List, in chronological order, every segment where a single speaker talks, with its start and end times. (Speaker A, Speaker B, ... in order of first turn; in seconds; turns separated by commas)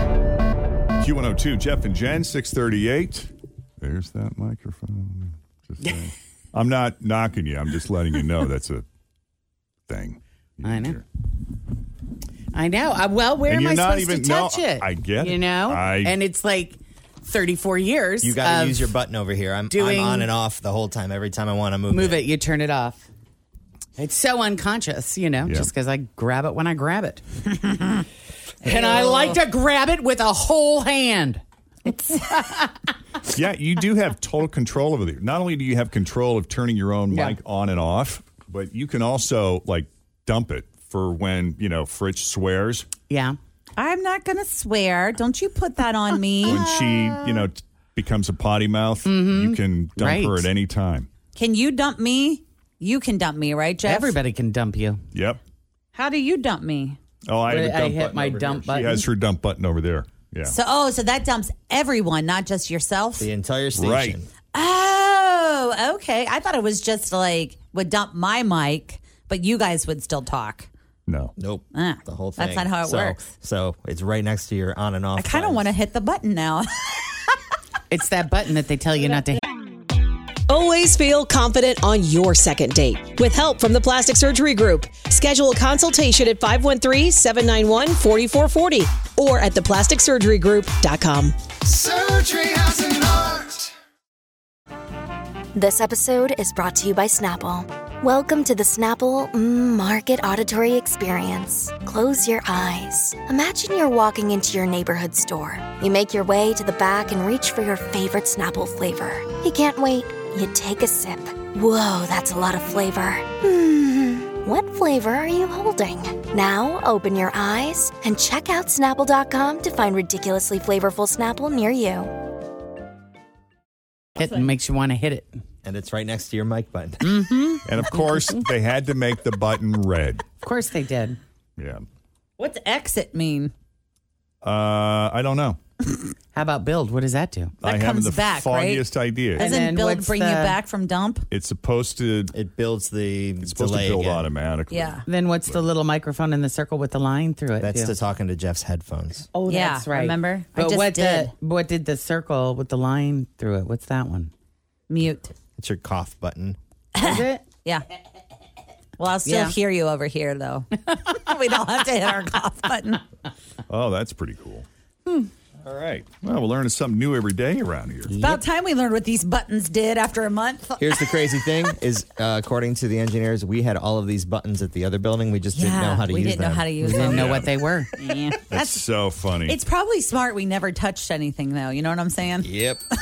Speaker A: 1.0-8.8, Speaker A: 9.9-11.0, Speaker B: 10.6-11.0, Speaker B: 12.5-19.0, Speaker A: 13.5-16.1, Speaker C: 18.2-22.3, Speaker B: 19.7-20.3, Speaker B: 21.9-23.1, Speaker B: 24.0-27.9, Speaker B: 28.6-32.7, Speaker C: 28.6-29.4, Speaker A: 33.2-42.9, Speaker B: 37.1-37.4, Speaker B: 43.1-43.4, Speaker D: 43.8-46.6, Speaker B: 46.4-47.5, Speaker A: 46.5-51.1, Speaker B: 49.0-50.5, Speaker D: 51.3-54.2, Speaker B: 53.8-55.0, Speaker A: 55.1-55.4, Speaker D: 55.9-57.0, Speaker A: 57.3-58.1, Speaker B: 57.5-59.0, Speaker C: 58.1-59.0, Speaker A: 58.7-60.6, Speaker D: 60.4-63.3, Speaker C: 63.2-64.3, Speaker A: 63.8-64.2, Speaker D: 64.5-70.7, Speaker A: 71.1-71.3, Speaker C: 71.4-75.7, Speaker D: 71.7-73.2, Speaker D: 75.2-77.3, Speaker B: 77.9-79.4, Speaker E: 80.5-91.3, Speaker E: 92.0-92.6, Speaker F: 95.5-122.3, Speaker B: 124.2-125.4, Speaker C: 125.6-127.1, Speaker B: 127.0-127.7, Speaker A: 127.7-130.2, Speaker B: 130.4-131.2, Speaker A: 131.6-131.8, Speaker D: 132.4-133.5, Speaker A: 134.4-135.6, Speaker B: 136.3-137.5, Speaker A: 137.6-139.5, Speaker D: 137.6-141.2, Speaker B: 139.3-140.6, Speaker A: 141.3-142.3, Speaker C: 142.3-144.2, Speaker A: 143.4-145.6, Speaker D: 144.7-145.0, Speaker B: 145.1-147.9, Speaker C: 147.6-149.3, Speaker B: 149.3-154.3, Speaker D: 149.5-151.3, Speaker D: 154.9-155.3, Speaker C: 155.6-156.6, Speaker B: 157.0-157.4, Speaker D: 159.0-163.0, Speaker B: 159.2-159.5, Speaker A: 163.7-164.7, Speaker A: 165.6-168.1, Speaker B: 168.1-168.4, Speaker D: 168.2-170.9, Speaker C: 170.8-176.7, Speaker D: 175.5-178.8, Speaker B: 176.8-177.9, Speaker A: 177.0-177.5, Speaker A: 178.5-179.6, Speaker D: 179.4-182.5, Speaker C: 182.4-182.8